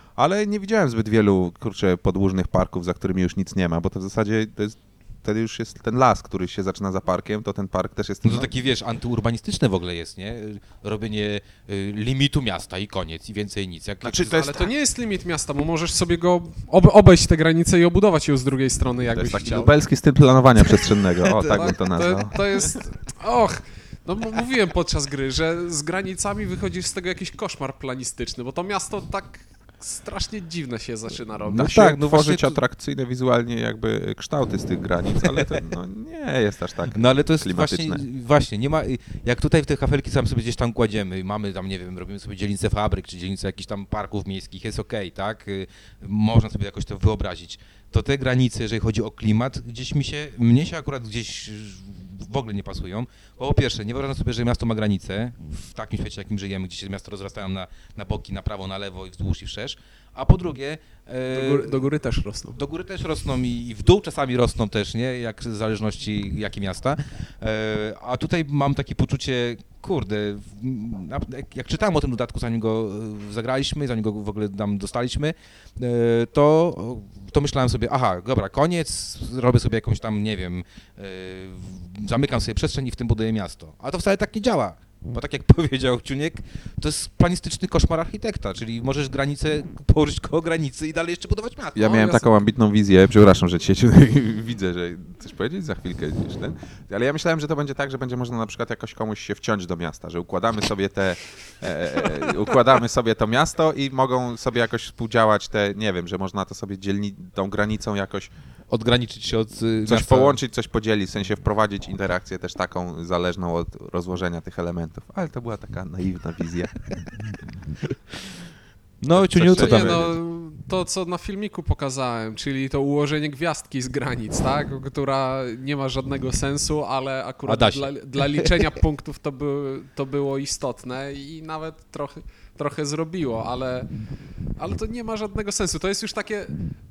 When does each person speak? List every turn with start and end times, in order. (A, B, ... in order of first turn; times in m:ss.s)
0:00.2-0:08.5 A
0:08.2-0:14.6 B
0:14.0-0:14.3 A
0:14.2-0:19.8 C
0:19.1-0:22.8 A
0:21.3-0:21.6 B
0:21.4-0:31.9 C
0:31.4-0:32.6 B
0:31.5-0:38.0 A
0:35.2-0:35.4 B
0:36.9-1:01.8 B
1:01.3-1:02.6 C
1:02.5-1:32.2 B
1:31.8-1:48.3 A
1:48.7-1:50.4 B
1:49.8-1:56.8 A
1:59.0-2:00.1 B
1:59.1-2:00.1 A
1:59.5-2:16.6 C
2:07.4-2:08.6 B